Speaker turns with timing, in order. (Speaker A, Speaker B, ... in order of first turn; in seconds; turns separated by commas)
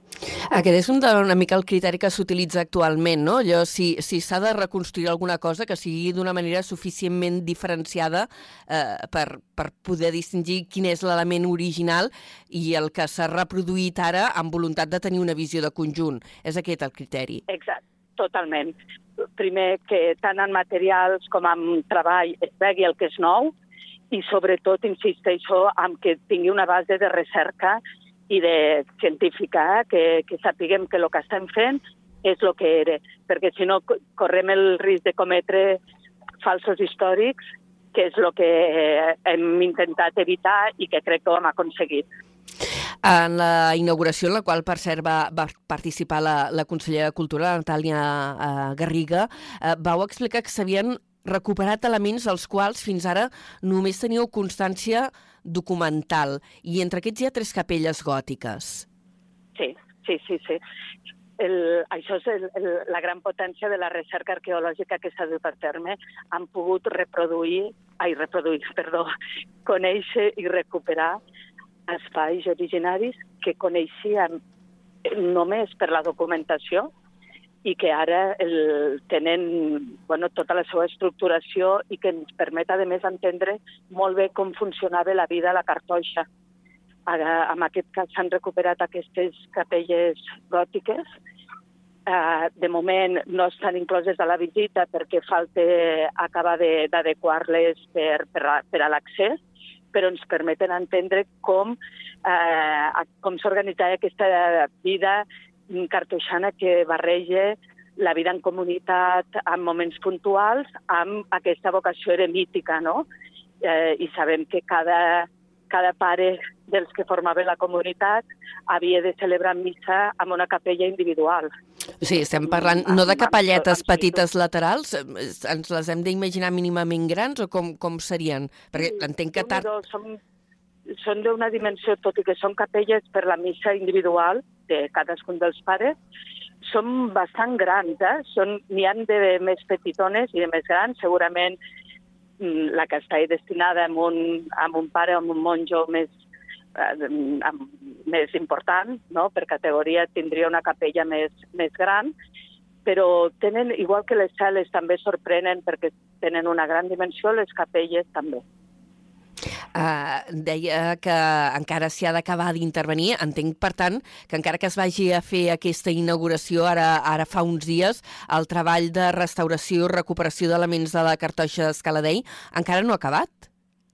Speaker A: 0.5-17.4, Speaker B: 17.5-18.7, Speaker B: 19.4-23.5, Speaker B: 24.1-35.8, Speaker B: 36.4-37.4, Speaker B: 37.9-42.0, Speaker A: 43.0-58.9, Speaker B: 59.5-60.6, Speaker B: 61.4-69.1, Speaker B: 69.7-71.2, Speaker B: 71.9-74.3, Speaker B: 75.0-76.9, Speaker B: 77.6-86.2, Speaker B: 87.1-91.0, Speaker B: 92.1-99.3, Speaker B: 99.9-113.0, Speaker B: 113.6-121.5, Speaker A: 122.0-129.7, Speaker B: 122.5-124.2, Speaker B: 128.8-130.2, Speaker B: 130.9-135.9, Speaker B: 136.7-141.6, Speaker B: 142.4-146.1, Speaker B: 146.8-152.1, Speaker B: 152.8-158.4, Speaker A: 159.7-173.5